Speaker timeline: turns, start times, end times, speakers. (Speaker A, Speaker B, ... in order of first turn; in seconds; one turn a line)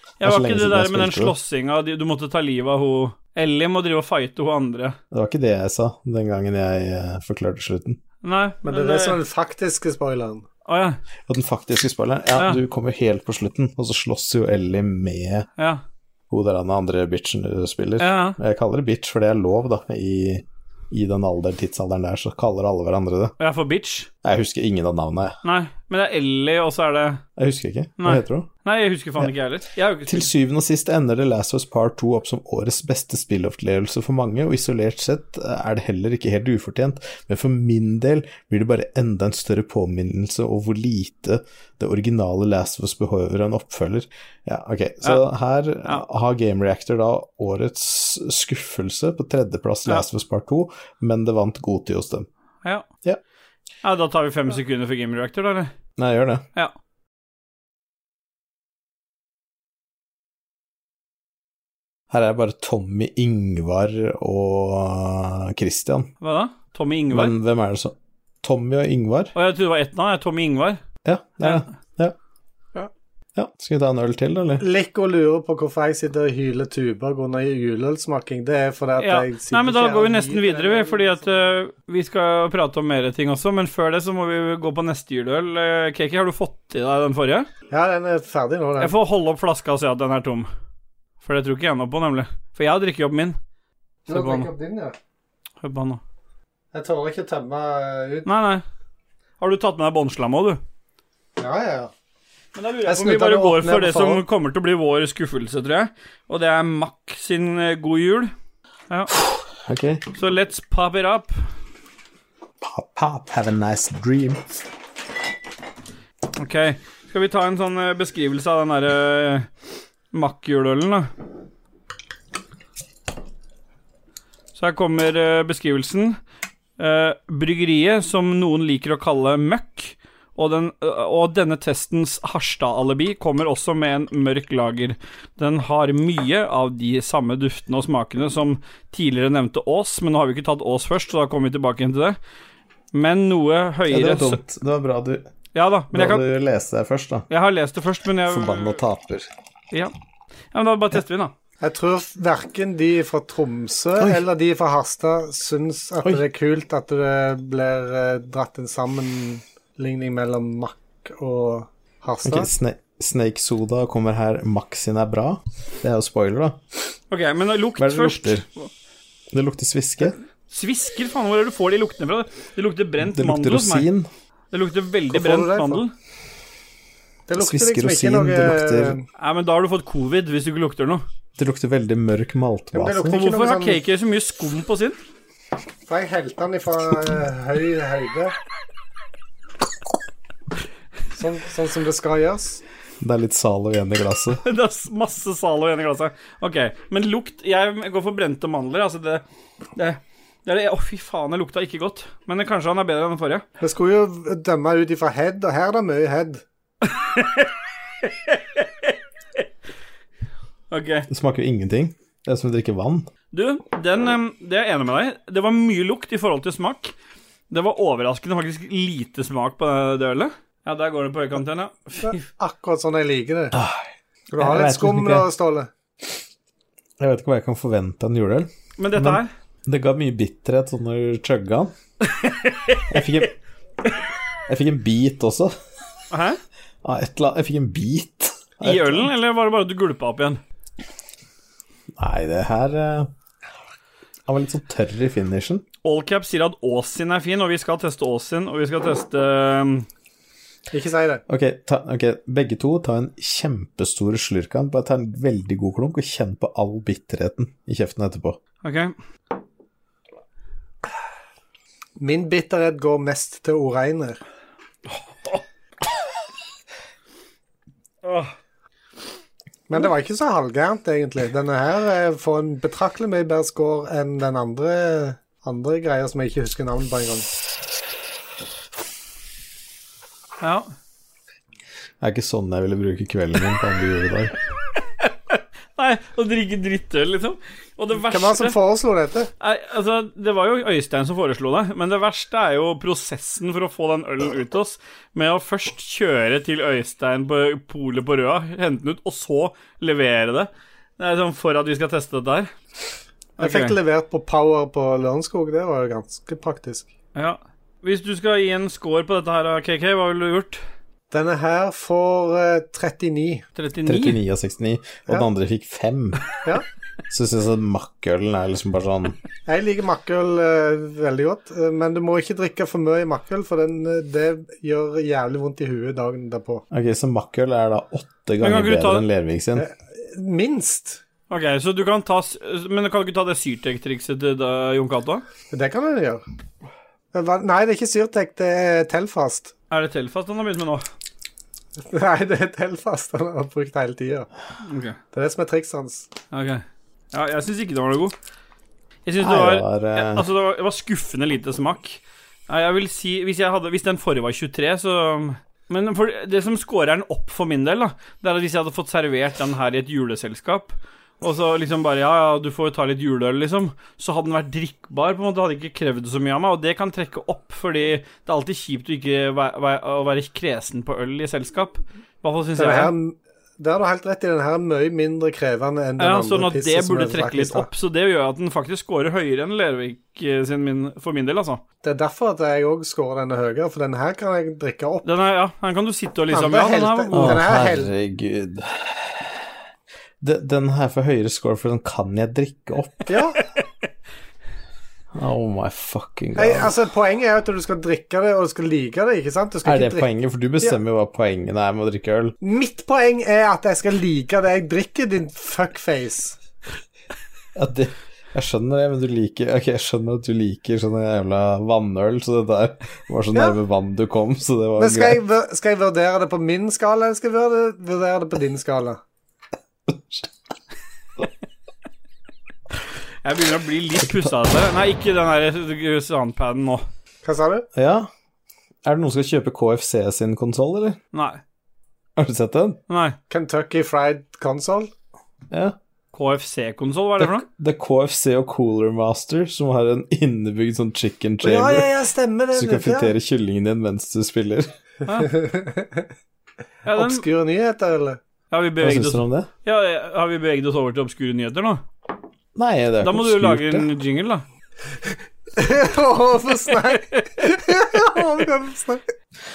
Speaker A: 0.2-1.4
Speaker B: 0.2-5.0
Speaker A: 5.1-8.0
Speaker B: 8.2-9.2
Speaker C: 8.7-10.5
Speaker B: 10.7-11.0
Speaker A: 11.3-15.5
Speaker A: 16.3-23.3
Speaker B: 18.0-18.4
Speaker B: 23.4-24.1
Speaker A: 24.2-25.4
Speaker B: 25.4-27.2
Speaker A: 27.4-28.5
Speaker B: 28.0-30.3
Speaker A: 30.1-52.3
Speaker B: 53.8-55.7
Speaker A: 56.0-56.4
Speaker A: 62.1-66.1
Speaker B: 66.2-67.3
Speaker A: 67.1-69.3
Speaker B: 69.3-70.8
Speaker A: 71.0-72.2
Speaker A: 73.4-74.7
Speaker C: 74.6-81.2
Speaker B: 79.0-87.5
Speaker C: 87.7-88.9
Speaker B: 88.8-90.5
Speaker B: 91.2-93.4
Speaker B: 94.1-94.5
Speaker C: 94.1-95.0
Speaker B: 95.6-96.0
Speaker C: 96.7-98.3
Speaker B: 98.3-98.6
Speaker B: 99.4-100.6
Speaker C: 101.4-101.9
Speaker B: 102.5-108.3
Speaker C: 102.9-104.2
Speaker B: 108.9-109.2
Speaker A: 109.6-110.1
Speaker B: 110.1-111.4
Speaker A: 112.6-114.5
Speaker B: 116.4-119.5
Speaker B: 120.1-121.1
Speaker B: 124.5-126.2
Speaker B: 126.8-142.2
Speaker B: 142.9-144.4
Speaker A: 143.9-145.3
Speaker B: 145.5-146.2
Speaker A: 145.9-147.3
Speaker B: 147.3-148.8
Speaker A: 148.2-149.3
Speaker B: 150.5-151.3
Speaker C: 151.6-162.5
Speaker A: 162.2-166.6
Speaker B: 167.1-168.7
Speaker A: 167.8-168.5
Speaker A: 169.3-170.2
Speaker B: 170.5-173.9
Speaker A: 173.0-174.1
Speaker B: 174.5-175.9
Speaker C: 175.1-175.8
Speaker C: 177.3-179.0
Speaker A: 177.4-179.0
Speaker B: 179.2-181.0
Speaker A: 181.4-183.2
Speaker C: 182.7-183.8
Speaker B: 183.1-185.0
Speaker C: 185.9-188.3
Speaker C: 191.1-192.6
Speaker A: 193.0-194.4
Speaker B: 194.4-199.2
Speaker B: 199.8-203.4
Speaker C: 203.6-206.4
Speaker B: 206.9-207.5
Speaker B: 208.0-208.9
Speaker B: 210.7-211.1
Speaker A: 211.1-213.1
Speaker B: 213.3-216.9
Speaker B: 217.5-222.2
Speaker C: 222.0-223.6
Speaker A: 223.5-223.9
Speaker C: 224.3-225.7
Speaker A: 224.4-225.3
Speaker A: 227.0-231.7
Speaker B: 228.8-229.3
Speaker B: 232.0-232.9
Speaker A: 232.9-233.3
Speaker A: 234.5-235.5
Speaker B: 236.1-236.4
Speaker A: 236.8-239.1
Speaker B: 238.6-240.4
Speaker A: 242.0-243.1
Speaker A: 244.3-245.6
Speaker B: 245.8-249.9
Speaker C: 250.7-251.2
Speaker A: 251.3-258.4
Speaker B: 258.6-258.9
Speaker C: 262.0-264.2
Speaker B: 264.9-265.4
Speaker B: 268.0-268.3
Speaker C: 269.7-277.3
Speaker B: 280.4-280.7
Speaker A: 282.0-284.3
Speaker B: 285.0-288.6
Speaker C: 288.1-289.3
Speaker B: 289.4-302.5
Speaker B: 303.4-303.8
Speaker C: 303.4-306.9
Speaker B: 307.2-310.6
Speaker C: 311.1-313.5
Speaker B: 313.6-314.2
Speaker A: 313.9-316.2
Speaker A: 317.1-319.2
Speaker C: 319.5-326.6
Speaker A: 326.7-329.7
Speaker B: 328.4-329.1
Speaker C: 329.6-331.0
Speaker B: 331.3-335.2
Speaker C: 335.5-336.2
Speaker C: 337.1-339.5
Speaker B: 339.7-340.8
Speaker C: 341.9-344.3
Speaker B: 344.6-345.0
Speaker C: 345.1-346.1
Speaker B: 346.3-348.1
Speaker B: 349.1-372.9
Speaker A: 349.2-350.3
Speaker C: 372.6-377.7
Speaker B: 376.0-381.6
Speaker C: 381.8-385.1
Speaker B: 385.1-387.4
Speaker C: 386.3-387.9
Speaker A: 387.1-389.5
Speaker A: 390.2-393.1
Speaker C: 393.1-393.4
Speaker A: 395.1-396.8
Speaker C: 396.4-400.1
Speaker A: 399.6-402.4
Speaker C: 402.4-406.4
Speaker A: 407.6-415.2
Speaker C: 414.8-419.0
Speaker A: 419.9-420.3
Speaker B: 423.2-426.9
Speaker A: 424.0-424.3
Speaker C: 427.2-427.7
Speaker A: 427.8-428.1
Speaker A: 428.9-431.0
Speaker B: 431.1-431.4
Speaker A: 432.2-432.8
Speaker B: 432.9-433.2
Speaker C: 433.3-434.9
Speaker A: 435.5-435.8
Speaker B: 436.1-437.5
Speaker A: 437.2-441.9
Speaker C: 441.4-443.1
Speaker A: 442.5-444.7
Speaker B: 445.1-445.3
Speaker C: 445.1-446.0
Speaker B: 446.9-447.2
Speaker C: 446.9-448.2
Speaker B: 448.5-451.8
Speaker A: 448.8-449.5
Speaker A: 452.6-453.9
Speaker B: 453.0-454.4
Speaker C: 455.6-459.0